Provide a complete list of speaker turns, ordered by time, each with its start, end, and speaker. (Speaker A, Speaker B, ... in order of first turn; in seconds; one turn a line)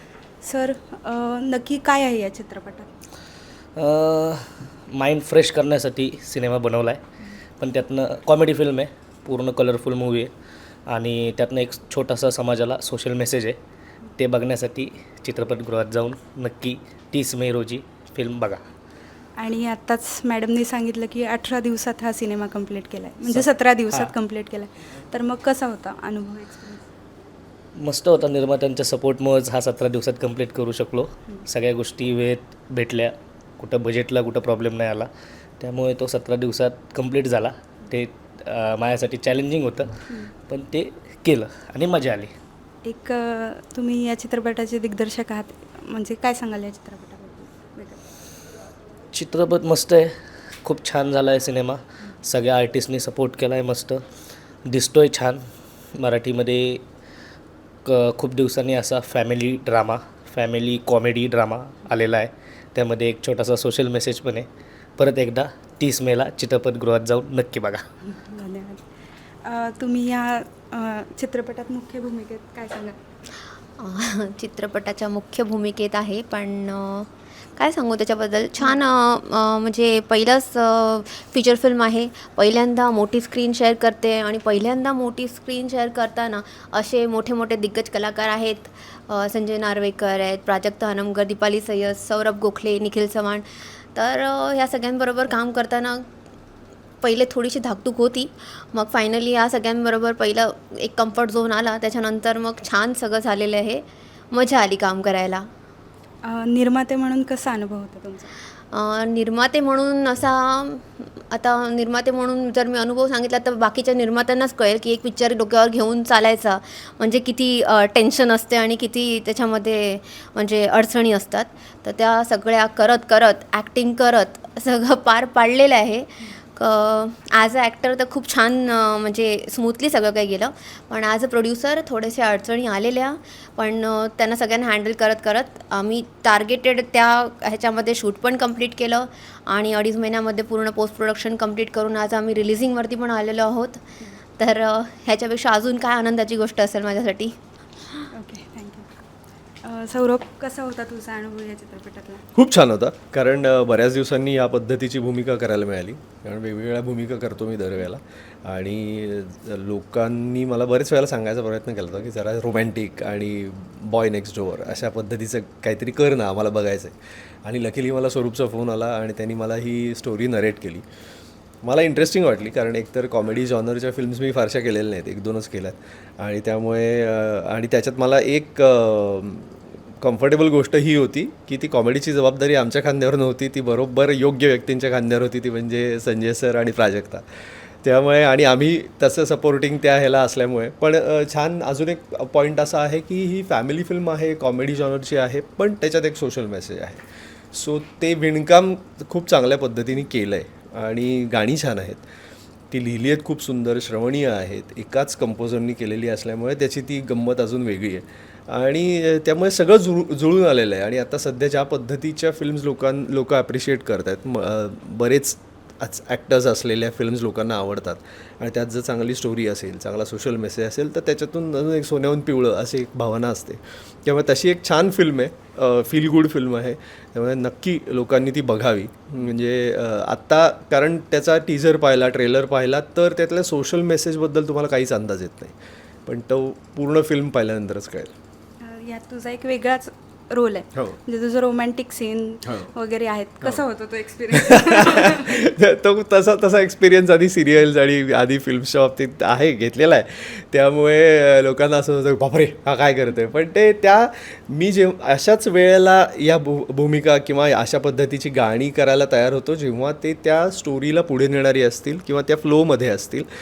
Speaker A: 0.4-2.9
Speaker B: 3.8-7.0
Speaker B: 7.6-10.3
Speaker B: 10.9-13.6
Speaker B: 14.2-18.6
Speaker A: 19.4-26.9
Speaker B: 23.3-24.1
Speaker B: 27.8-35.1
Speaker B: 35.6-42.3
Speaker A: 42.8-48.0
Speaker B: 49.1-54.0
Speaker B: 54.7-55.4
Speaker B: 56.0-56.8
Speaker B: 57.9-67.8
Speaker A: 68.1-68.8
Speaker A: 69.4-73.0
Speaker C: 73.8-96.1
Speaker C: 97.0-105.5
Speaker A: 106.2-108.3
Speaker C: 108.7-143.8
Speaker C: 144.4-147.3
Speaker A: 148.1-148.9
Speaker A: 149.7-152.2
Speaker D: 152.3-170.8
Speaker D: 171.6-187.2
Speaker D: 187.8-197.0
Speaker D: 197.5-202.0
Speaker D: 202.7-235.6
Speaker D: 236.1-238.1
Speaker A: 238.6-245.3
Speaker D: 244.4-263.3